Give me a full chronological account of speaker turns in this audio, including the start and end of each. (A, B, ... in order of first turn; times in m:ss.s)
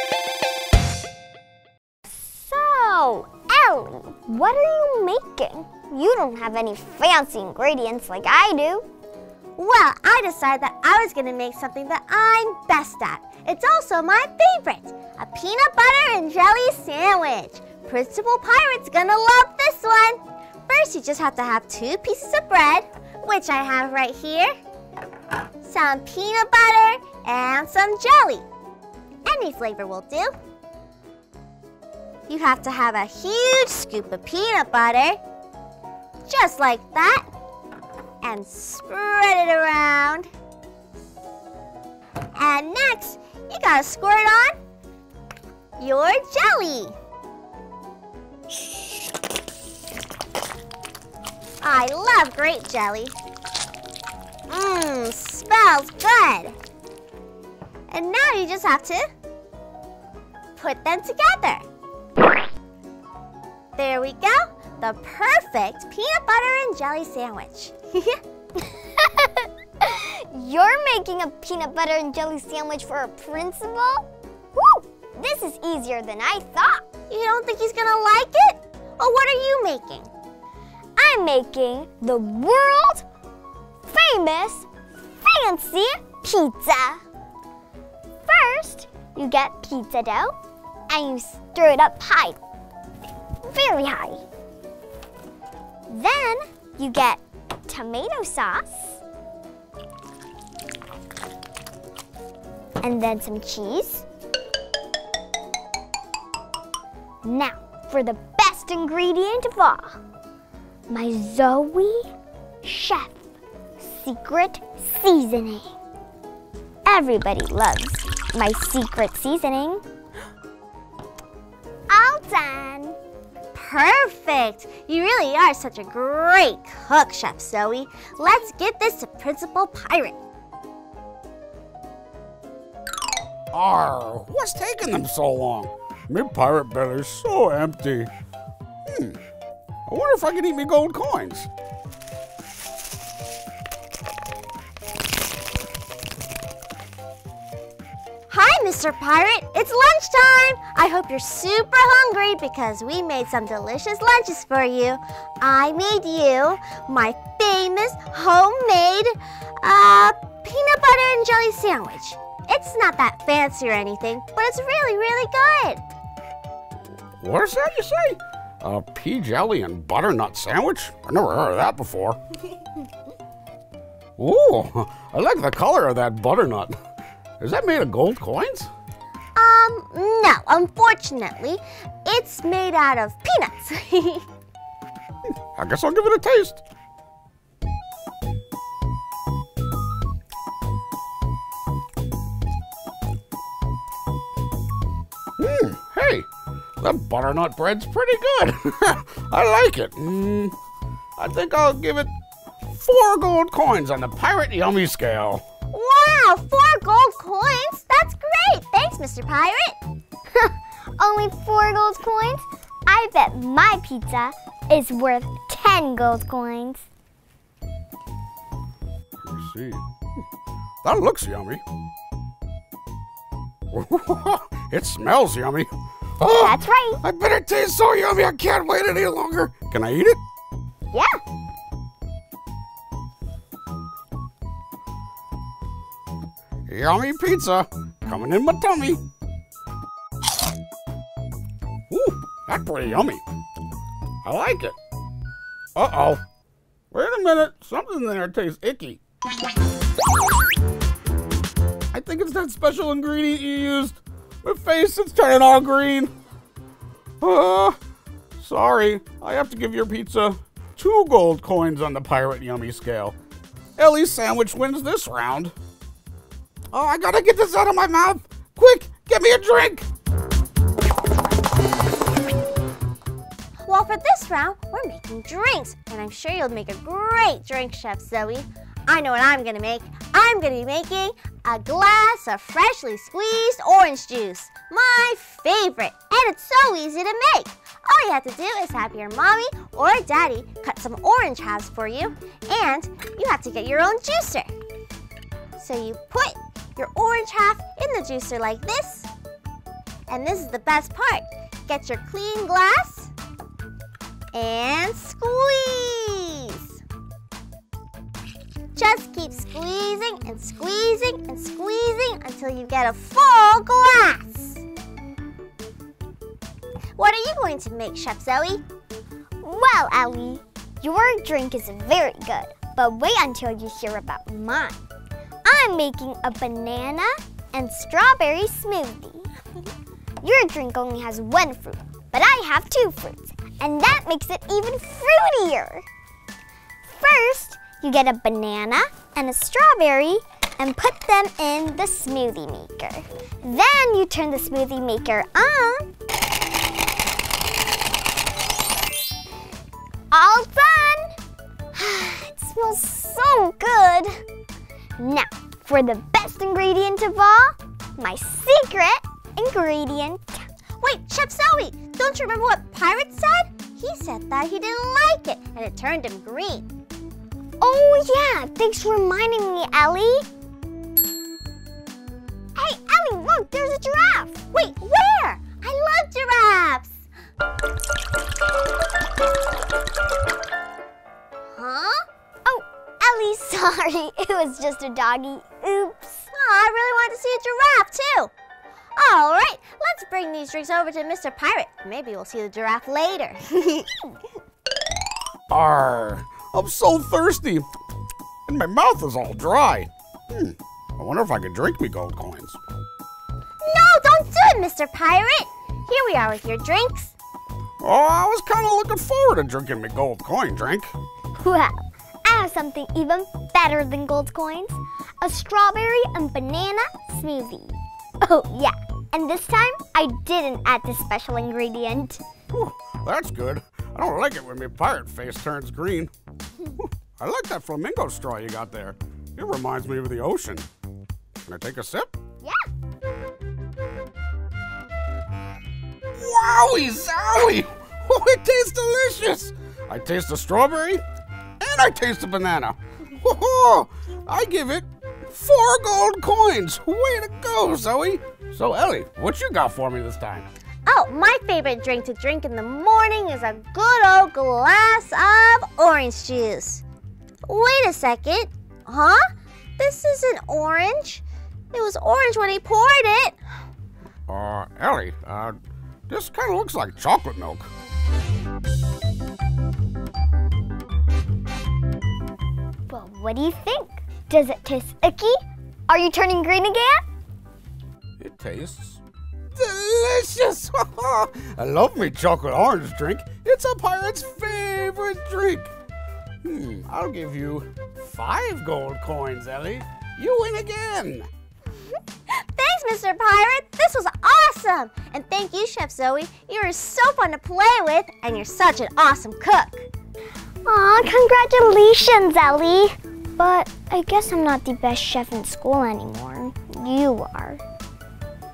0:02.3-0:08.8 A
0:09.6-0:24.5 B
0:25.6-0:28.4 B
0:29.2-0:30.3 B
0:32.3-0:35.2 B
0:36.3-0:37.2 B
0:38.2-0:40.3 B
0:42.3-0:44.6 B
0:45.8-0:46.9 B
0:51.6-0:53.1 B
0:54.5-0:56.6 B
0:57.9-0:59.1 B
1:00.6-1:01.6 B
1:03.8-1:08.2 B
1:09.8-1:16.9 A
1:17.1-1:20.1 B
1:21.0-1:23.0 A
1:23.9-1:24.7 A
1:25.2-1:27.0 A
1:28.3-1:30.3 A
1:30.9-1:32.4 A
1:33.5-1:34.2 A
1:35.9-1:39.0 A
1:42.8-1:44.0 A
1:47.2-1:50.0 A
1:50.9-1:52.1 A
1:52.6-1:53.1 A
1:53.8-1:55.7 A
1:56.8-1:59.8 A
2:01.9-2:03.0 A
2:03.5-2:10.2 B
2:13.5-2:18.1 C
2:18.9-2:19.2 C
2:19.9-2:21.5 C
2:28.3-2:45.8 B
2:47.2-2:52.2 C
2:54.2-2:56.8 C
2:57.4-2:58.7 C
2:59.4-3:04.2 B
3:05.6-3:06.6 C
3:15.4-3:16.3 C
3:16.8-3:20.5 C
3:21.2-3:22.1 C
3:22.7-3:25.4 C
3:25.7-3:29.8 B
3:30.4-3:36.8 A
3:39.2-3:39.8 C
3:40.8-3:41.6 C
3:43.7-3:45.7 C
3:46.2-3:50.2 C
3:46.3-3:47.0 A
3:50.9-3:51.2 A
3:56.7-3:59.0 C
4:01.9-4:03.2 C
4:04.2-4:04.7 C
4:05.7-4:06.2 C
4:06.9-4:09.0 C
4:11.9-4:16.1 C
4:17.2-4:17.8 C
4:18.4-4:23.2 C
4:23.8-4:25.5 C
4:26.7-4:29.8 C
4:33.6-4:54.5 B
4:55.6-4:59.1 B
5:00.1-5:03.1 B
5:04.3-5:06.8 B
5:08.8-5:14.6 B
5:17.0-5:18.6 B
5:19.4-5:24.8 A
5:25.4-5:29.3 A
5:30.2-5:35.8 A
5:36.9-5:45.9 A
5:50.1-5:51.1 A
5:51.7-5:54.2 A
5:55.0-6:00.5 A
6:00.8-6:06.7 B
6:07.6-6:10.2 A
6:12.6-6:14.4 A
6:14.5-6:16.9 B
6:21.6-6:22.0 B
6:22.4-6:26.2 A
6:26.3-6:28.3 B
6:29.0-6:33.9 B
6:35.5-6:37.6 C
6:38.5-6:42.6 C
6:43.6-6:47.1 B
6:47.8-6:50.9 C
6:51.4-7:02.2 A
7:02.5-7:06.1 C
7:06.8-7:10.6 C
7:11.5-7:12.1 C
7:12.4-7:12.7 A
7:16.1-7:21.0 C
7:21.6-7:30.5 C
7:30.8-7:36.8 B
7:37.5-7:39.2 B
7:39.8-7:43.4 B
7:44.3-7:45.6 C
7:46.1-7:47.7 C
7:52.9-7:57.0 A
7:58.2-7:59.0 C
7:59.5-8:05.7 C
8:06.4-8:11.3 C
8:12.5-8:19.9 B
8:20.6-8:27.6 A